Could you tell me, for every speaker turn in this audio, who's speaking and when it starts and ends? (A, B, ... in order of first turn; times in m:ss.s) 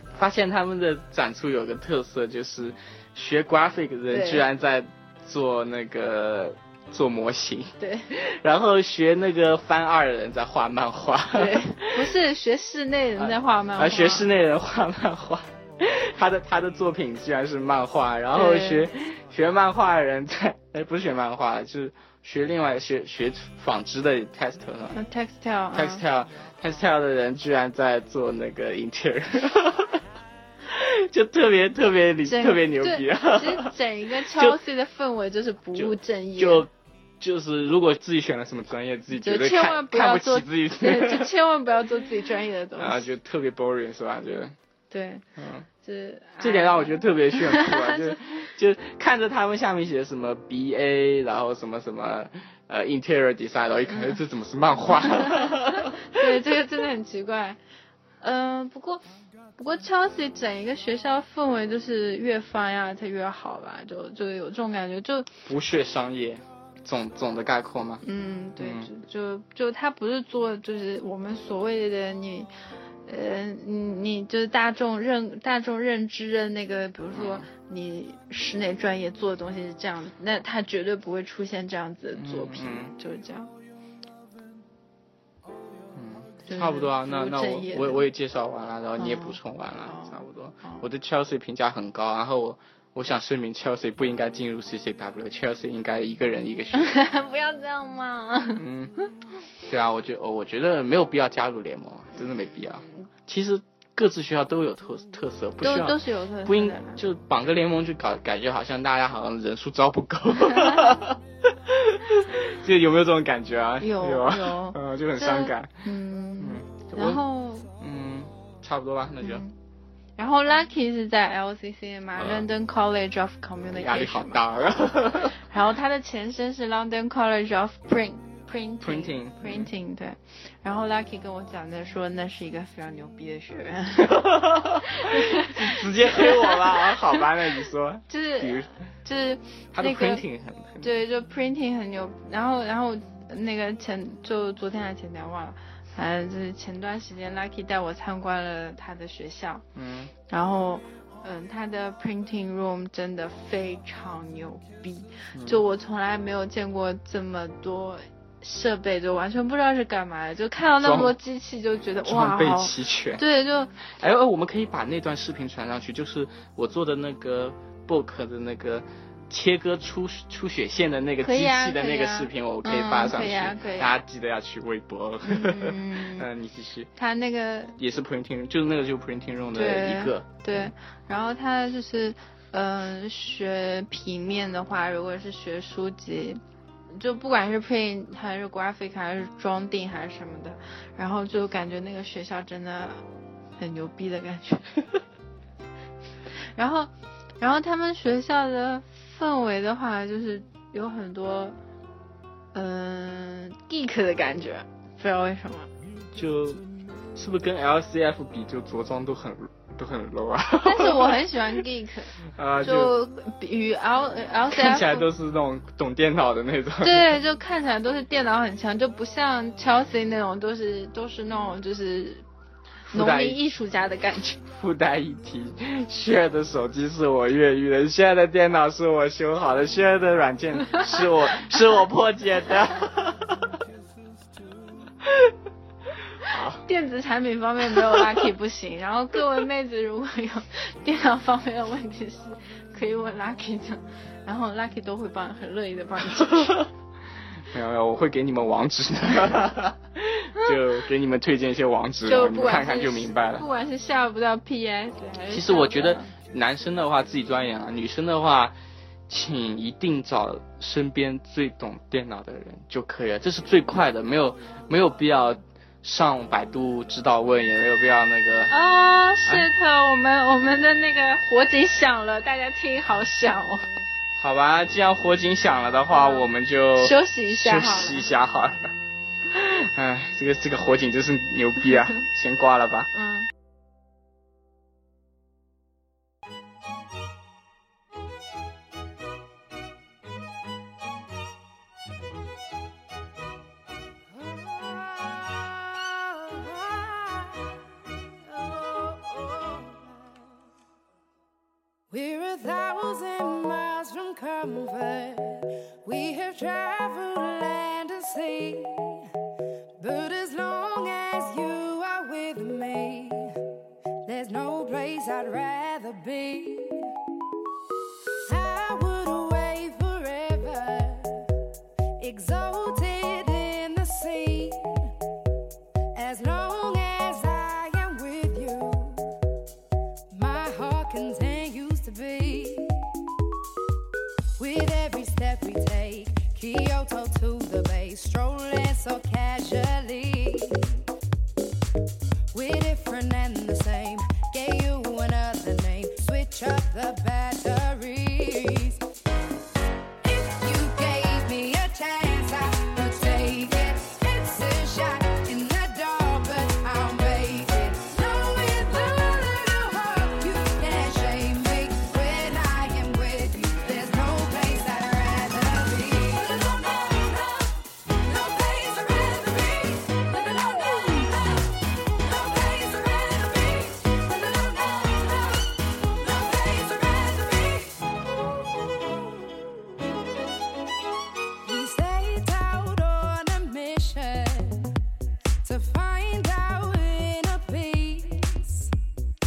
0:00.1-0:12.1 A
0:04.1-0:04.4 B
0:07.8-0:08.1 B
0:11.3-0:14.3 B
0:13.2-0:25.0 A
0:18.3-0:18.9 B
0:24.9-0:26.0 B
0:25.7-0:30.0 A
0:30.7-0:34.6 A
0:32.2-0:36.6 B
0:35.7-0:41.3 A
0:39.1-0:43.1 B
0:42.8-0:44.5 A
0:44.9-0:45.2 B
0:45.4-0:45.7 A
0:45.8-0:48.2 B
0:46.4-0:56.0 A
0:53.9-0:54.2 B
0:55.0-0:57.6 B
0:58.2-0:59.0 B
0:59.6-1:05.3 B
1:05.4-1:08.0 A
1:08.0-1:12.5 B
1:08.6-1:08.9 A
1:13.0-1:23.5 B
1:17.1-1:17.5 A
1:22.1-1:22.9 A
1:25.9-1:37.0 A
1:26.4-1:28.1 B
1:29.0-1:30.8 B
1:36.7-1:38.6 B
1:38.6-1:38.9 A
1:39.6-1:55.8 A
1:45.6-1:47.0 B
1:50.4-1:51.0 B
1:53.8-1:57.7 B
1:56.4-1:57.2 A
1:57.8-1:59.4 A
1:59.2-1:59.5 B
2:00.2-2:04.4 B
2:02.2-2:02.5 A
2:03.7-2:05.4 A
2:05.4-2:17.2 B
2:08.8-2:09.7 A
2:14.0-2:18.7 A
2:18.1-2:20.2 B
2:19.7-2:20.9 A
2:20.8-2:29.6 B
2:29.7-2:30.1 A
2:30.3-2:43.8 B
2:35.3-2:35.6 A
2:40.8-2:41.1 A
2:42.0-2:43.2 A
2:43.8-2:56.9 A
2:51.2-2:54.0 B
2:55.2-2:56.3 B
2:57.0-2:57.7 B
2:57.8-3:00.7 A
2:59.5-3:06.4 B
3:06.9-3:13.0 B
3:13.6-3:14.8 B
3:16.5-3:21.6 B
3:22.5-3:25.7 B
3:26.1-3:31.3 A
3:30.6-3:35.1 B
3:32.2-3:32.9 A
3:34.5-3:37.1 A
3:36.8-3:42.2 B
3:42.9-3:43.4 A
3:42.9-3:44.4 B
3:44.4-3:53.5 A
3:56.2-3:56.6 A
3:56.6-4:06.6 B
3:57.7-3:58.1 A
4:06.2-4:06.7 A
4:07.5-4:13.4 A
4:12.0-4:16.1 B
4:15.3-4:18.6 A
4:19.1-4:28.5 A
4:28.5-4:33.7 B
4:34.2-4:38.7 A
4:35.9-4:38.1 B
4:39.3-4:42.9 A
4:42.9-4:43.3 B
4:54.1-4:57.6 C
4:58.2-5:00.0 C
5:01.9-5:09.0 C
5:09.8-5:13.4 C
5:14.0-5:16.9 C
5:18.2-5:21.2 C
5:22.0-5:24.9 C
5:25.9-5:29.0 C
5:30.1-5:32.8 C
5:34.4-5:40.8 C
5:42.3-5:48.8 C
5:50.0-6:07.4 C
6:08.0-6:11.4 C
6:12.0-6:17.8 C
6:18.9-6:19.9 C
6:21.4-6:24.7 C
6:25.4-6:28.7 C